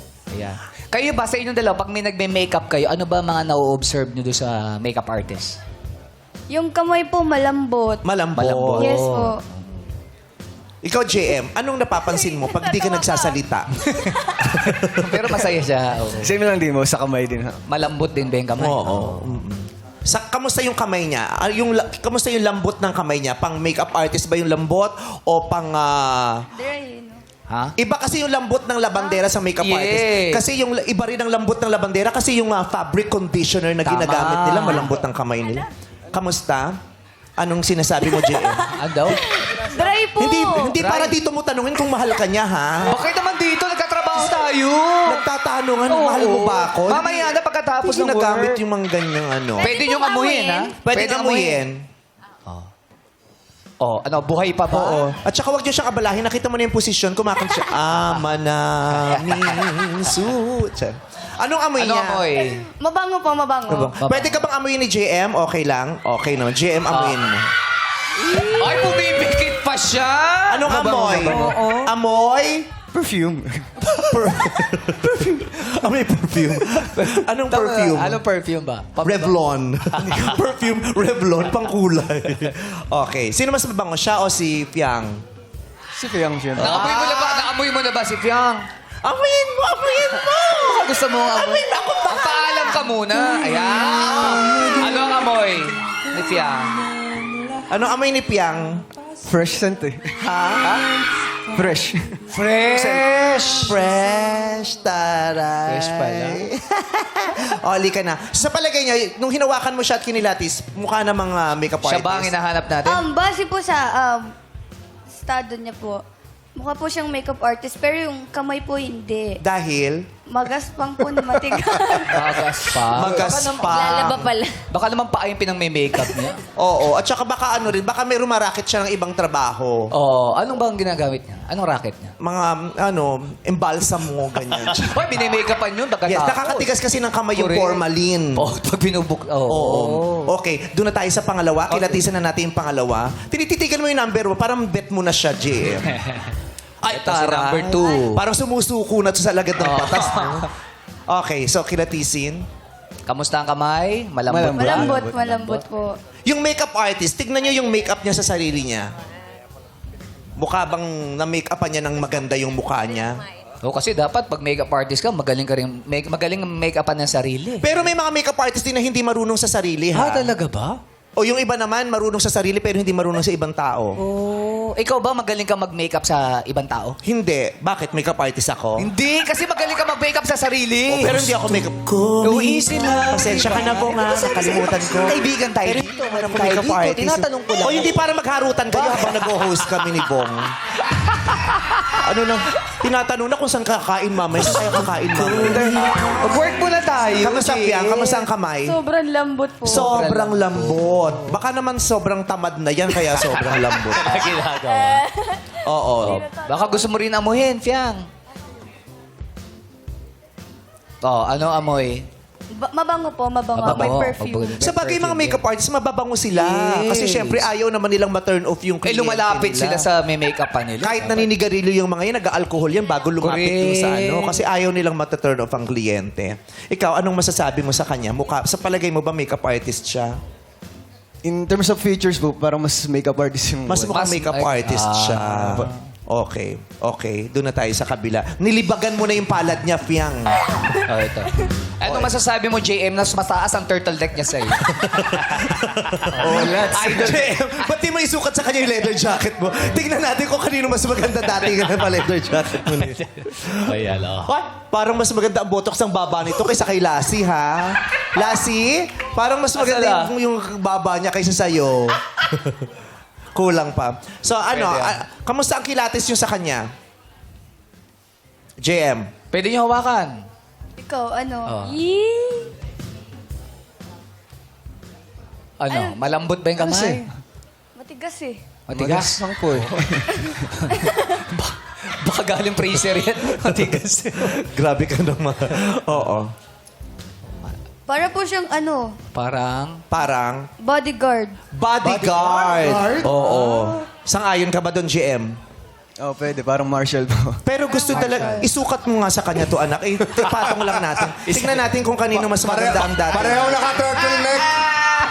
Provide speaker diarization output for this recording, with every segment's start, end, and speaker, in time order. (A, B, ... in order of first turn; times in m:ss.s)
0:00.3-0:05.6 A
0:06.5-0:08.0 B
0:08.0-0:08.9 C
0:08.3-0:09.4 A
0:08.8-0:09.4 B
0:10.8-0:13.7 C
0:12.1-0:13.4 B
0:14.6-0:15.0 C
0:14.9-0:16.4 A
0:15.2-0:15.5 D
0:16.1-0:17.6 D
0:17.7-0:19.3 A
0:18.6-0:26.5 C
0:26.5-0:27.2 B
0:27.5-0:27.7 A
0:27.8-0:36.8 C
0:29.6-0:30.4 A
0:33.8-0:34.9 A
0:37.4-0:38.8 C
0:38.8-0:39.3 A
0:39.1-0:40.8 B
0:40.2-0:43.0 C
0:40.7-0:41.2 A
0:42.9-0:45.3 A
0:45.0-0:49.7 C
0:45.9-0:48.6 A
0:49.6-0:50.8 B
0:49.6-0:51.6 A
0:50.8-0:51.8 C
0:53.8-0:55.0 A
0:54.7-1:02.2 C
1:01.8-1:02.6 A
1:02.4-1:03.9 B
1:03.7-1:07.5 C
1:03.9-1:04.5 A
1:06.9-1:07.2 A
1:08.2-1:11.6 A
1:10.5-1:12.7 C
1:11.2-1:11.9 D
1:12.9-1:14.8 D
1:14.0-1:18.2 C
1:16.9-1:19.4 A
1:19.0-1:25.2 C
1:19.9-1:20.2 A
1:25.9-1:27.0 D
1:26.6-1:27.5 C
1:26.6-1:28.7 A
1:29.0-1:32.8 C
1:30.4-1:36.8 A
1:34.2-1:34.5 C
1:37.7-1:38.8 C
1:39.2-1:40.2 D
1:40.2-1:40.8 C
1:40.6-1:40.9 A
1:41.4-1:42.2 D
1:42.3-1:43.8 A
1:42.7-1:52.3 C
1:45.6-1:46.5 A
1:51.8-1:53.1 A
1:52.8-1:54.3 B
1:55.2-1:56.0 B
1:56.5-1:59.4 B
1:59.4-2:00.1 C
2:00.3-2:02.4 B
2:02.1-2:06.4 A
2:02.9-2:04.4 C
2:03.6-2:04.6 B
2:06.6-2:09.9 C
2:09.9-2:12.2 A
2:12.2-2:14.9 C
2:14.6-2:16.7 A
2:16.1-2:18.4 C
2:17.3-2:17.8 A
2:18.4-2:20.3 A
2:19.5-2:26.0 C
2:21.7-2:22.1 A
2:25.9-2:26.4 A
2:26.8-2:30.5 C
2:26.9-2:28.2 A
2:29.6-2:30.5 A
2:31.1-2:32.4 C
2:33.1-2:35.6 A
2:34.3-2:35.2 D
2:34.6-2:36.0 B
2:36.2-2:38.9 C
2:40.4-2:43.2 C
2:43.6-2:47.8 A
2:47.6-2:50.3 C
2:49.9-2:50.8 A
2:51.2-2:54.0 C
2:54.0-2:57.0 A
2:57.0-2:58.9 C
2:58.8-3:01.7 A
3:00.9-3:10.5 C
3:02.2-3:08.0 A
3:08.7-3:10.0 A
3:10.8-3:12.1 A
3:11.9-3:15.9 C
3:15.1-3:18.3 A
3:15.4-3:16.0 D
3:17.2-3:18.8 C
3:18.6-3:19.9 B
3:19.6-3:24.3 C
3:19.7-3:21.3 A
3:23.1-3:25.1 A
3:24.1-3:26.9 B
3:25.6-3:26.3 C
3:26.0-3:28.1 A
3:31.0-3:32.1 A
3:32.5-3:34.6 B
3:33.5-3:35.4 A
3:33.7-3:34.0 C
3:34.6-3:39.9 C
3:36.3-3:37.5 A
3:38.8-3:41.3 A
3:40.8-3:50.2 C
3:43.2-3:44.4 A
3:51.2-3:54.1 D
3:53.7-4:00.4 C
3:53.9-3:55.8 A
4:00.8-4:07.7 A
4:01.8-4:02.1 C
4:04.8-4:22.6 C
4:06.1-4:07.3 D
4:12.5-4:14.3 A
4:19.6-4:20.1 A
4:23.3-4:26.6 C
4:24.5-4:25.0 A
4:28.6-4:29.1 C
4:29.3-4:30.2 A
4:30.8-4:32.5 B
4:31.4-4:31.8 A
4:35.6-4:37.1 A
4:35.7-4:36.0 B
4:36.6-4:37.1 D
4:37.8-4:38.6 B
4:38.7-4:39.8 A
4:38.7-4:40.5 D
4:40.1-4:41.2 B
4:40.5-4:44.5 A
4:44.3-4:46.3 C
4:47.9-4:49.0 B
4:49.1-4:49.8 A
4:49.9-4:50.5 C
4:50.6-4:51.4 B
4:51.5-4:55.3 C
4:51.8-4:53.8 D
4:56.0-4:58.4 D
4:57.4-5:03.6 C
4:57.7-4:58.5 B
5:00.2-5:00.8 D
5:01.3-5:01.6 A
5:02.4-5:04.6 D
5:04.1-5:05.0 A